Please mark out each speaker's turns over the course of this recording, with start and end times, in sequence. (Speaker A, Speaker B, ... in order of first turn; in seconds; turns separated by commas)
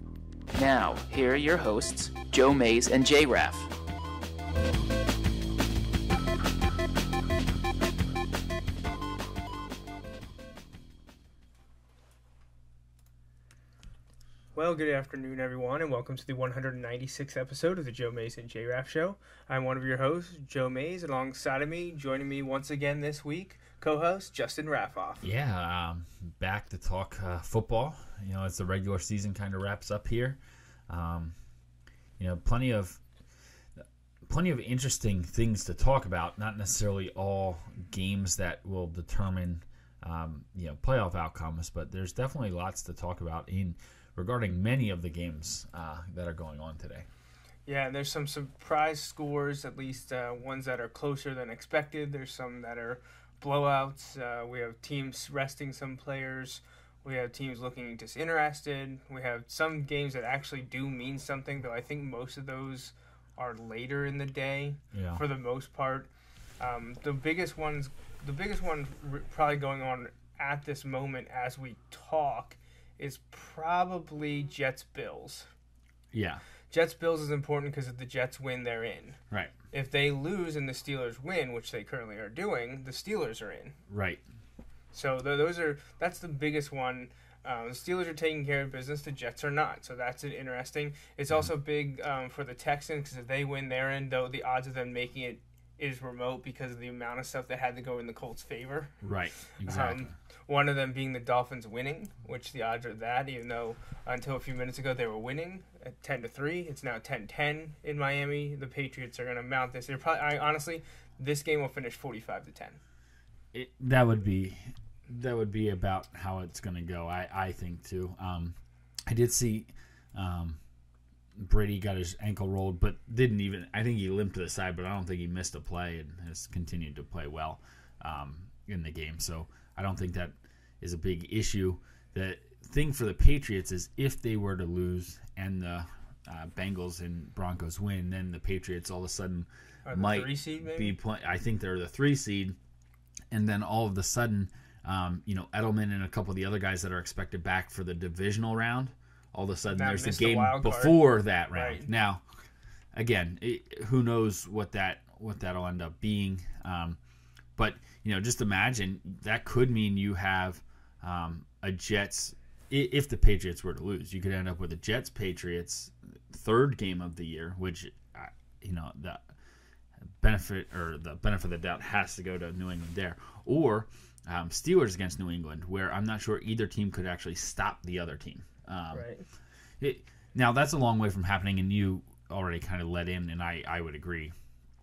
Speaker A: 0.5-3.7, Speaker B: 14.6-25.3, Speaker C: 25.2-31.3, Speaker C: 32.2-33.0, Speaker C: 34.3-47.0, Speaker B: 47.7-66.1, Speaker C: 64.9-65.2, Speaker B: 66.6-75.5, Speaker C: 76.1-76.4, Speaker B: 76.7-79.2, Speaker B: 79.7-83.8, Speaker C: 83.9-84.2, Speaker B: 84.9-98.9, Speaker C: 99.0-100.1, Speaker B: 99.7-112.8, Speaker C: 113.5-118.5, Speaker C: 119.1-120.6, Speaker C: 121.4-142.6, Speaker B: 139.8-140.9, Speaker C: 143.3-152.2, Speaker B: 149.7-151.9, Speaker C: 152.9-157.0, Speaker C: 157.6-169.2, Speaker C: 170.2-179.1, Speaker B: 178.9-179.2, Speaker C: 179.8-184.3